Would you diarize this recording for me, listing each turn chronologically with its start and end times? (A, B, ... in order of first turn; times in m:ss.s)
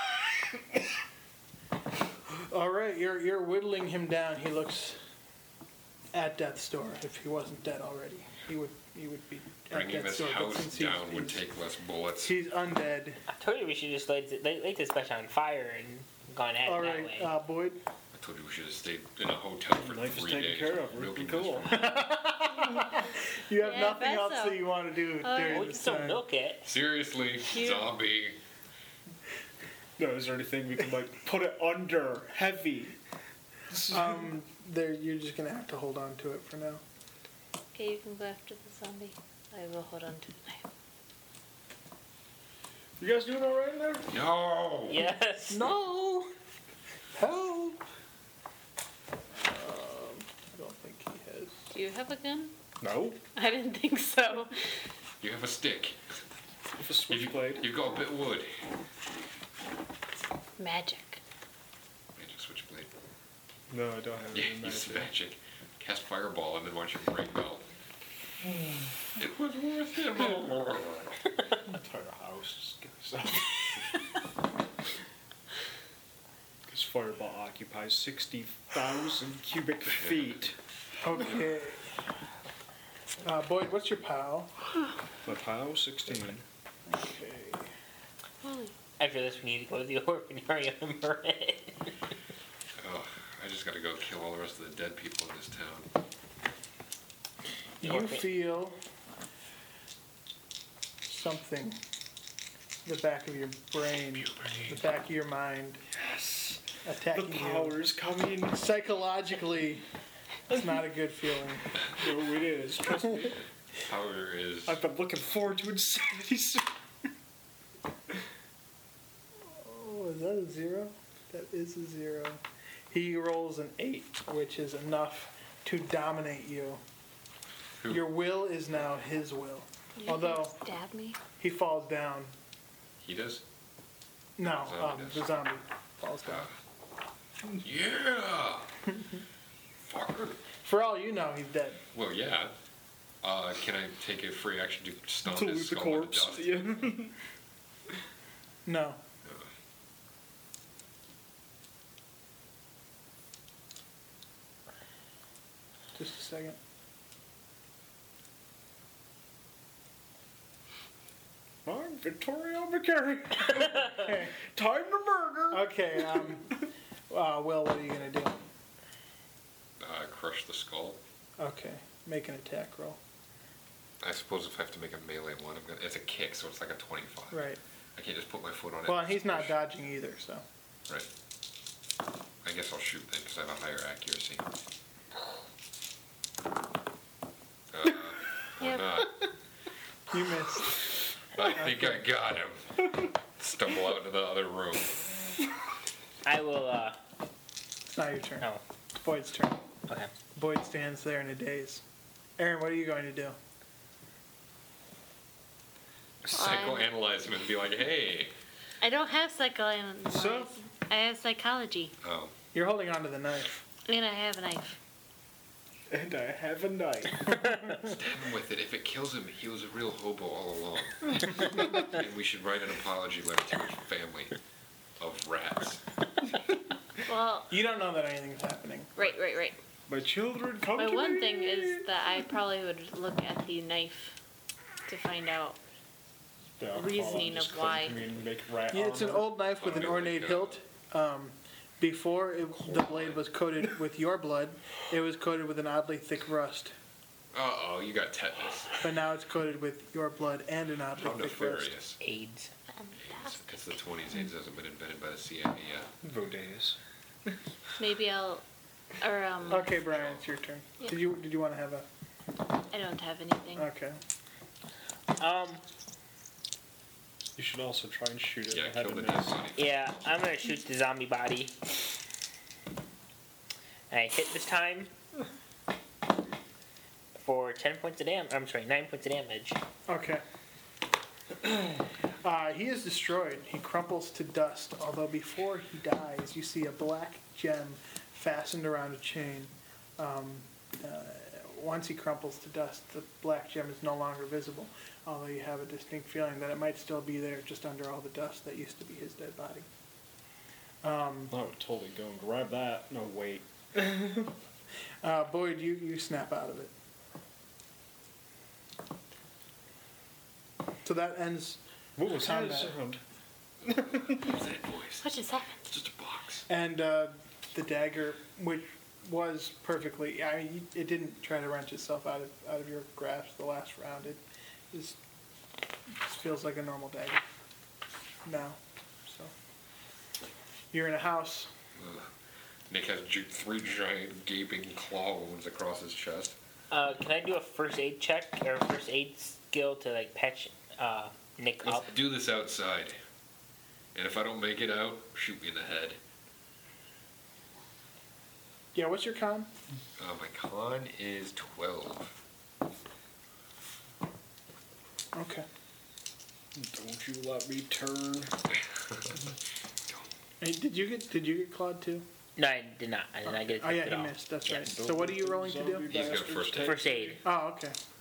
0:02.3-0:05.0 A
0:06.1-0:11.4 A
0:09.7-0:12.3 B
0:12.2-0:13.2 A
0:13.3-0:17.3 C
0:16.6-0:17.8 A
0:18.1-0:22.0 B
0:19.8-0:21.9 D
0:21.7-0:26.2 A
0:23.6-0:24.7 E
0:25.2-0:26.0 E
0:25.4-0:26.7 C
0:26.6-0:28.4 B
0:27.4-0:27.9 E
0:30.0-0:33.0 D
0:33.7-0:34.3 D
0:33.9-0:36.8 A
0:37.7-0:40.6 E
0:43.0-0:44.1 D
0:44.1-0:45.1 B
0:44.9-0:45.7 C
0:45.5-0:46.3 A
0:47.1-0:47.8 A
0:49.3-0:51.7 A
0:51.7-0:52.5 E
0:52.8-0:53.2 D
0:53.3-0:54.6 E
0:55.2-0:56.2 B
0:56.8-0:57.7 D
0:57.1-0:58.5 B
1:00.6-1:01.2 E
1:02.2-1:02.9 B
1:03.7-1:05.1 D
1:04.3-1:07.6 B
1:08.4-1:08.9 D
1:09.2-1:11.2 B
1:11.6-1:13.9 D
1:16.7-1:20.6 D
1:21.0-1:21.9 A
1:23.2-1:24.5 A
1:25.2-1:26.4 D
1:26.9-1:27.7 A
1:28.4-1:28.7 E
1:29.0-1:31.9 C
1:32.8-1:35.9 B
1:37.8-1:38.8 A
1:37.8-1:38.2 C
1:41.0-1:41.8 A
1:42.8-1:45.8 A
1:44.2-1:44.7 B
1:45.9-1:48.6 D
1:46.8-1:47.8 A
1:48.5-1:49.8 A
1:50.5-1:51.8 A
1:51.9-1:53.4 D
1:53.8-1:54.8 B
1:54.6-1:56.7 D
1:59.5-2:06.8 A
2:07.8-2:08.1 B
2:07.9-2:10.6 A
2:10.0-2:11.2 E
2:11.4-2:12.3 A
2:13.0-2:13.4 B
2:14.4-2:16.5 A
2:14.4-2:15.4 B
2:16.2-2:16.5 B
2:17.6-2:18.7 B
2:19.8-2:20.4 B
2:20.6-2:21.8 A
2:21.9-2:22.5 B
2:23.2-2:26.6 B
2:25.3-2:27.2 D
2:28.6-2:29.0 A
2:29.2-2:29.5 B
2:35.9-2:36.6 A
2:41.6-2:46.3 D
2:43.8-2:44.3 A
2:45.5-2:48.4 A
2:49.8-2:51.0 B
2:51.4-2:53.0 A
2:54.0-2:59.6 B
2:57.3-2:57.6 A
2:58.8-3:00.4 A
3:02.4-3:04.5 B
3:07.7-3:09.2 B
3:08.6-3:09.0 E
3:10.1-3:10.8 A
3:11.3-3:15.0 B
3:11.5-3:12.0 A
3:16.2-3:17.0 C
3:17.9-3:19.6 A
3:20.3-3:21.8 A
3:22.4-3:23.4 A
3:26.2-3:28.3 B
3:26.3-3:26.9 E
3:28.8-3:31.9 E
3:30.1-3:30.5 D
3:32.0-3:32.3 B
3:32.5-3:33.6 A
3:33.8-3:34.8 E
3:35.9-3:37.5 D
3:37.4-3:37.9 A
3:37.8-3:44.3 B
3:45.0-3:45.8 B
3:47.0-3:47.5 E
3:47.5-3:48.9 A
3:49.0-3:49.6 E
3:49.9-3:51.8 D
3:50.8-3:54.2 E
3:54.9-3:55.6 E
3:56.6-3:59.3 D
3:56.7-3:58.0 E
3:58.7-4:06.7 A
3:59.6-4:00.6 B
4:02.6-4:03.2 B
4:07.3-4:08.8 B
4:08.8-4:11.7 A
4:10.9-4:12.0 B
4:12.0-4:12.5 C
4:12.7-4:13.7 E
4:13.0-4:15.9 B
4:16.0-4:16.8 D
4:17.8-4:18.4 E
4:19.0-4:19.8 E
4:19.5-4:21.8 A
4:19.5-4:20.2 B
4:22.7-4:23.7 E
4:23.6-4:24.0 A
4:25.2-4:25.6 C
4:27.4-4:29.4 D
4:28.5-4:29.9 B
4:29.6-4:31.5 C
4:33.9-4:34.9 C
4:37.1-4:39.6 C
4:39.9-4:40.2 A
4:42.2-4:59.7 A
5:00.8-5:01.3 A
5:01.3-5:04.3 D
5:05.0-5:06.7 A
5:10.8-5:12.8 A
5:12.0-5:13.0 D
5:13.6-5:14.3 D
5:13.6-5:15.1 B
5:15.0-5:15.6 E
5:15.7-5:16.5 B
5:16.5-5:25.0 A
5:26.0-5:27.2 A
5:28.2-5:29.3 A
5:30.7-5:31.5 A
5:31.8-5:32.1 B
5:32.7-5:36.4 B
5:36.7-5:41.9 C
5:41.6-5:43.0 B
5:43.9-5:46.0 B
5:48.7-5:49.5 A
5:50.0-5:52.2 B
5:55.1-5:55.4 A
5:56.5-5:58.4 D
5:58.5-5:59.2 B
6:00.4-6:02.0 A
6:02.4-6:04.2 C
6:03.2-6:06.0 A
6:04.4-6:07.2 D
6:05.9-6:06.8 B
6:06.6-6:07.2 C
6:07.2-6:07.8 A